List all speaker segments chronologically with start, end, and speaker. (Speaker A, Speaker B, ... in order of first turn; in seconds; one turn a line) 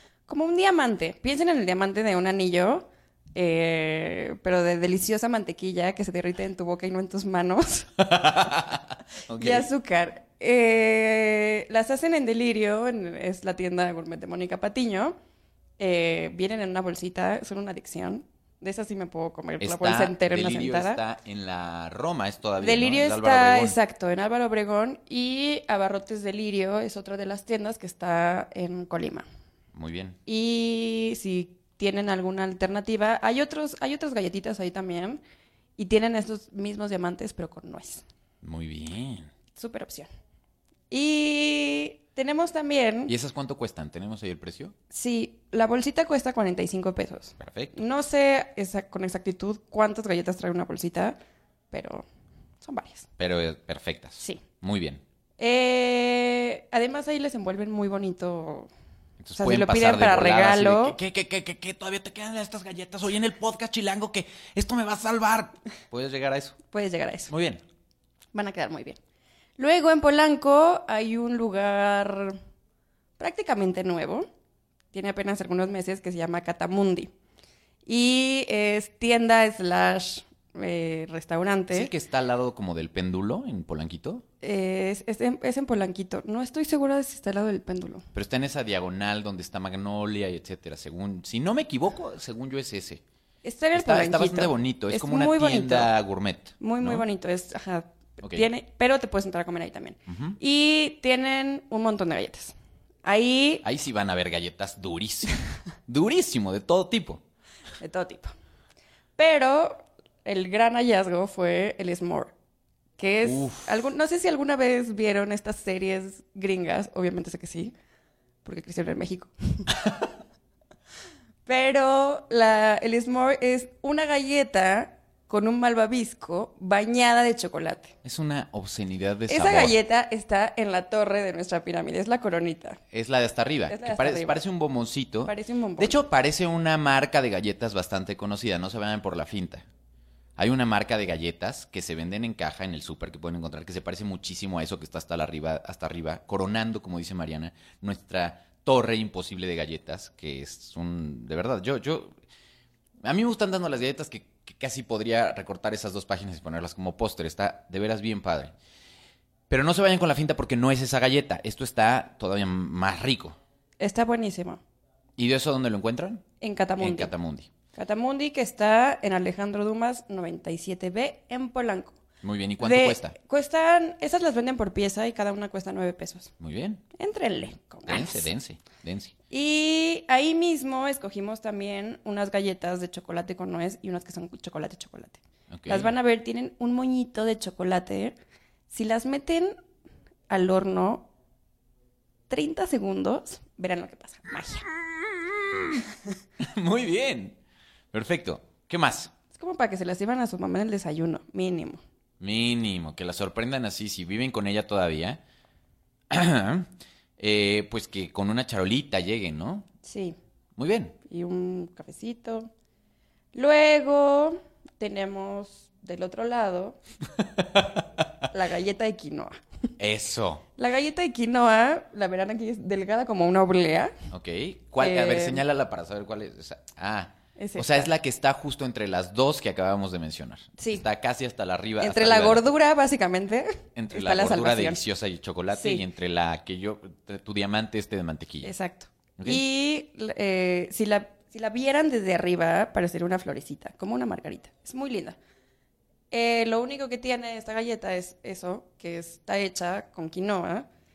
Speaker A: 0.3-7.9
Speaker B: 8.0-9.7
Speaker A: 9.4-15.2
Speaker A: 15.8-21.0
Speaker B: 19.6-23.8
Speaker A: 22.6-29.2
Speaker B: 29.7-30.2
Speaker A: 30.2-35.2
Speaker A: 35.8-38.0
Speaker B: 38.4-39.3
Speaker A: 39.5-40.1
Speaker A: 40.9-43.1
Speaker B: 43.1-44.7
Speaker A: 44.9-51.2
Speaker B: 47.4-47.8
Speaker A: 51.7-52.0
Speaker A: 52.6-53.1
Speaker B: 53.2-55.0
Speaker A: 55.4-58.7
Speaker B: 59.2-66.6
Speaker A: 59.4-61.0
Speaker A: 66.7-67.3
Speaker B: 67.3-67.6
Speaker A: 68.3-69.0
Speaker A: 69.6-72.4
Speaker A: 73.2-74.3
Speaker A: 74.9-77.1
Speaker A: 77.8-81.9
Speaker B: 81.7-84.2
Speaker A: 84.4-88.0
Speaker B: 88.1-93.0
Speaker A: 93.4-95.9
Speaker B: 93.7-97.0
Speaker A: 96.6-103.6
Speaker B: 98.2-98.5
Speaker B: 100.1-100.4
Speaker B: 103.6-107.2
Speaker A: 107.8-108.3
Speaker A: 109.2-112.3
Speaker A: 113.0-117.7
Speaker B: 113.2-113.7
Speaker A: 118.4-119.8
Speaker A: 121.5-127.9
Speaker B: 128.0-129.7
Speaker A: 129.3-132.8
Speaker B: 132.9-139.6
Speaker A: 133.7-134.4
Speaker A: 135.2-136.0
Speaker B: 140.4-152.2
Speaker B: 153.0-158.5
Speaker B: 159.5-163.4
Speaker A: 163.8-164.6
Speaker B: 165.2-166.2
Speaker A: 166.4-167.1
Speaker B: 166.8-167.5
Speaker A: 167.7-171.9
Speaker B: 172.2-173.2
Speaker A: 172.6-176.3
Speaker B: 176.4-176.8
Speaker A: 176.9-178.3
Speaker B: 177.9-179.1
Speaker A: 179.3-188.2
Speaker B: 185.5-185.9
Speaker A: 188.7-189.6
Speaker A: 190.3-191.1
Speaker A: 192.3-194.7
Speaker B: 194.8-195.8
Speaker B: 196.4-197.4
Speaker B: 197.9-199.1
Speaker A: 199.3-201.8
Speaker B: 202.2-205.2
Speaker B: 206.1-209.7
Speaker A: 209.8-210.2
Speaker B: 210.6-210.9
Speaker A: 211.1-212.5
Speaker A: 213.3-216.8
Speaker B: 217.4-217.8
Speaker A: 218.3-219.3
Speaker B: 219.8-220.4
Speaker A: 220.6-223.9
Speaker B: 224.1-232.4
Speaker A: 224.8-225.4
Speaker A: 227.3-227.9
Speaker A: 230.6-230.8
Speaker A: 231.8-234.8
Speaker B: 233.8-238.5
Speaker A: 235.5-235.8
Speaker A: 238.4-245.2
Speaker B: 239.2-239.4
Speaker A: 246.1-250.7